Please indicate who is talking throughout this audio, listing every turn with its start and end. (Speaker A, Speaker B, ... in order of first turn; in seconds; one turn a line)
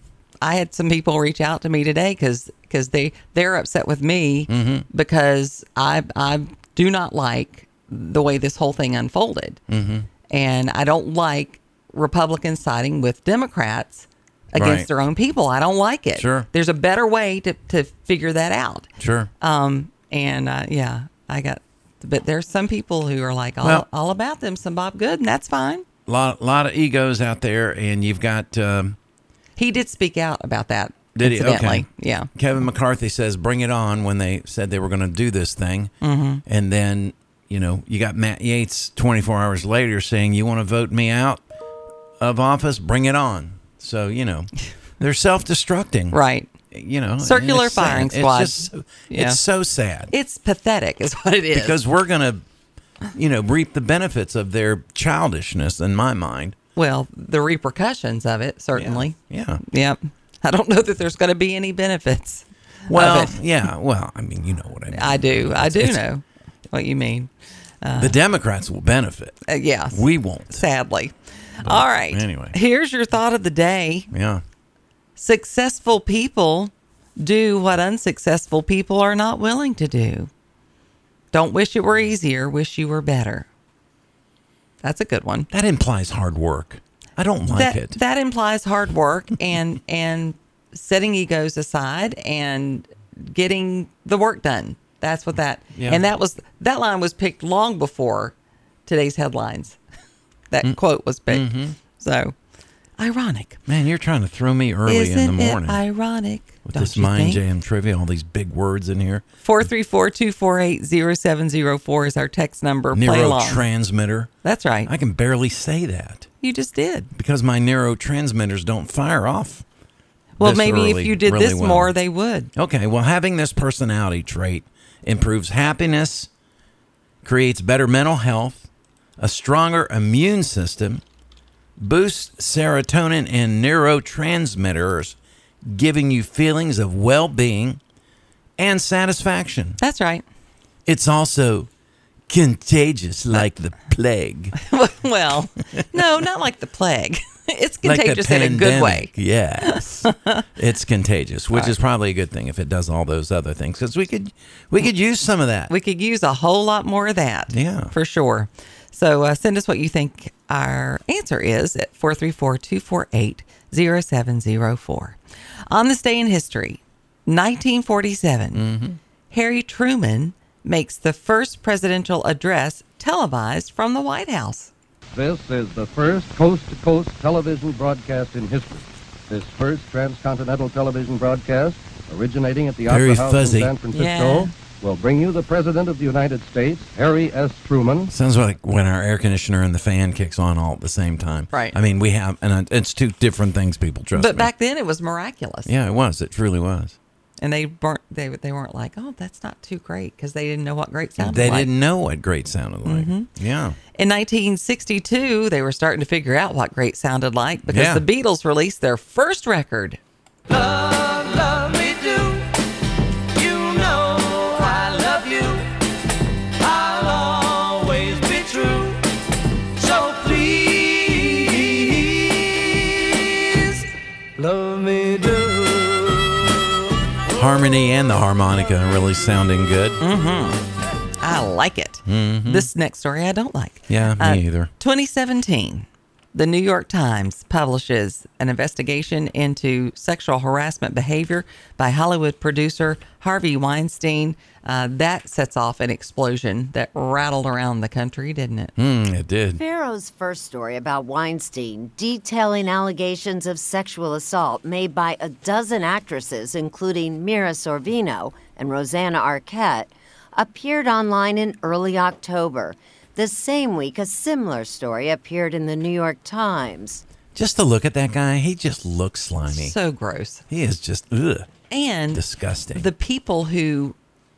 Speaker A: 0.4-9.6
Speaker B: 4.5-4.8
Speaker B: 9.7-10.1
Speaker A: 10.3-18.9
Speaker B: 14.5-14.9
Speaker B: 16.1-16.5
Speaker B: 19.0-19.3
Speaker A: 19.4-25.8
Speaker B: 26.1-28.9
Speaker A: 29.6-32.3
Speaker B: 31.1-35.9
Speaker A: 36.0-36.4
Speaker B: 36.5-41.4
Speaker B: 42.2-46.2
Speaker A: 46.1-46.5
Speaker B: 46.7-50.1
Speaker A: 47.2-49.4
Speaker A: 50.1-51.8
Speaker B: 51.5-52.4
Speaker B: 53.1-56.5
Speaker A: 56.8-63.4
Speaker B: 58.7-59.6
Speaker B: 62.9-66.0
Speaker A: 64.9-67.3
Speaker A: 67.8-68.2
Speaker B: 67.9-69.4
Speaker A: 69.5-74.1
Speaker B: 69.9-70.6
Speaker B: 71.6-72.5
Speaker B: 74.1-74.4
Speaker A: 75.2-80.3
Speaker A: 81.3-83.5
Speaker A: 84.8-85.5
Speaker B: 85.5-88.0
Speaker A: 87.5-98.3
Speaker B: 95.7-96.0
Speaker A: 98.8-99.8
Speaker A: 100.5-102.3
Speaker B: 101.3-101.8
Speaker A: 103.0-103.6
Speaker B: 103.7-105.8
Speaker A: 104.8-107.4
Speaker B: 106.6-109.2
Speaker A: 109.4-113.6
Speaker B: 112.9-114.3
Speaker A: 114.4-114.9
Speaker B: 114.8-116.3
Speaker A: 116.4-117.1
Speaker B: 117.1-119.6
Speaker A: 120.4-122.5
Speaker B: 120.4-122.0
Speaker B: 122.5-126.3
Speaker B: 127.2-128.7
Speaker B: 129.2-131.0
Speaker B: 131.8-135.2
Speaker B: 135.7-137.8
Speaker B: 138.6-139.8
Speaker A: 139.8-140.2
Speaker B: 140.8-141.7
Speaker B: 142.3-144.6
Speaker A: 144.6-150.4
Speaker B: 147.8-155.7
Speaker A: 155.7-165.2
Speaker B: 157.5-157.9
Speaker A: 165.7-168.7
Speaker B: 168.5-169.0
Speaker A: 169.3-174.7
Speaker C: 175.2-188.1
Speaker B: 182.9-183.7
Speaker A: 183.9-184.5
Speaker B: 188.1-194.5
Speaker A: 194.1-195.7
Speaker B: 195.7-196.9
Speaker A: 197.4-201.7
Speaker B: 201.2-203.8
Speaker A: 202.8-203.3
Speaker A: 203.9-210.0
Speaker B: 207.7-208.0
Speaker D: 210.5-212.5
Speaker D: 213.4-215.7
Speaker D: 216.6-219.0
Speaker D: 219.8-223.1
Speaker D: 224.4-225.8
Speaker B: 227.3-230.0
Speaker A: 230.0-230.6
Speaker A: 231.2-248.7
Speaker B: 232.1-232.7
Speaker B: 233.9-234.7
Speaker B: 248.8-249.6
Speaker E: 249.6-267.0
Speaker B: 267.3-269.7
Speaker A: 269.5-270.4
Speaker B: 270.5-271.5
Speaker A: 271.7-273.9
Speaker B: 272.1-272.9